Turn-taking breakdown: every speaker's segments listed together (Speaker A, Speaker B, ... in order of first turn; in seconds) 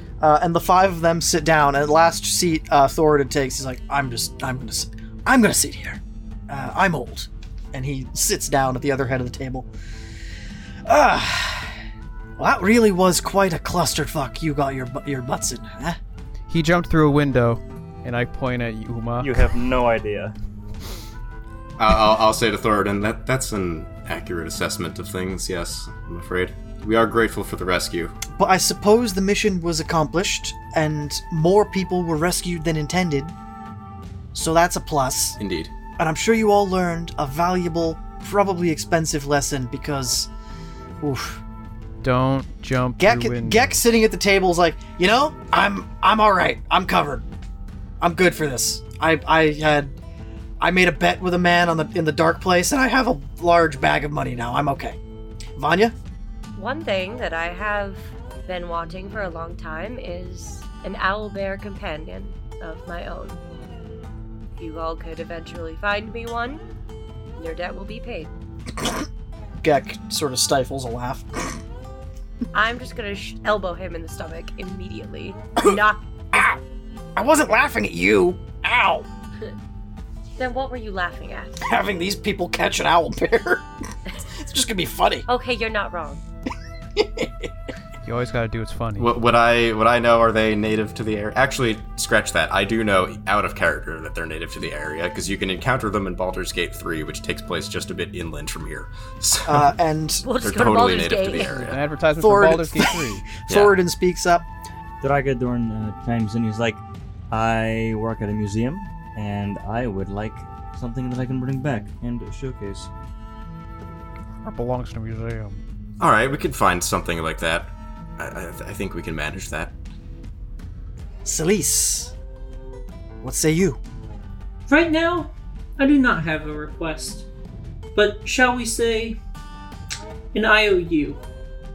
Speaker A: 0.2-9.7, 10.8-11.8, 12.4-16.0, 28.3-33.3, 34.3-35.4, 36.0-40.3, 41.0-41.4, 43.0-47.2, 48.0-49.9, 50.6-55.0, 55.6-55.9, 69.6-71.6, 76.3-76.6, 77.2-79.1, 81.6-83.7, 84.2-85.3, 87.0-87.5, 99.5-100.2, 102.2-104.5, 121.2-122.1, 123.2-123.8
Speaker B: 16.5-19.5, 42.0-43.8, 88.0-89.1, 101.6-103.3, 114.4-115.6
Speaker C: 19.2-20.3, 105.0-112.9
Speaker D: 21.8-28.2, 35.4-35.7, 89.0-99.7, 100.4-101.8, 103.5-103.8, 116.0-119.7
Speaker E: 56.5-63.4, 64.6-66.6, 67.3-68.3, 72.5-76.0, 80.4-81.7, 85.3-86.2, 100.2-101.7
Speaker F: 124.7-127.3, 127.9-129.2, 130.3-131.2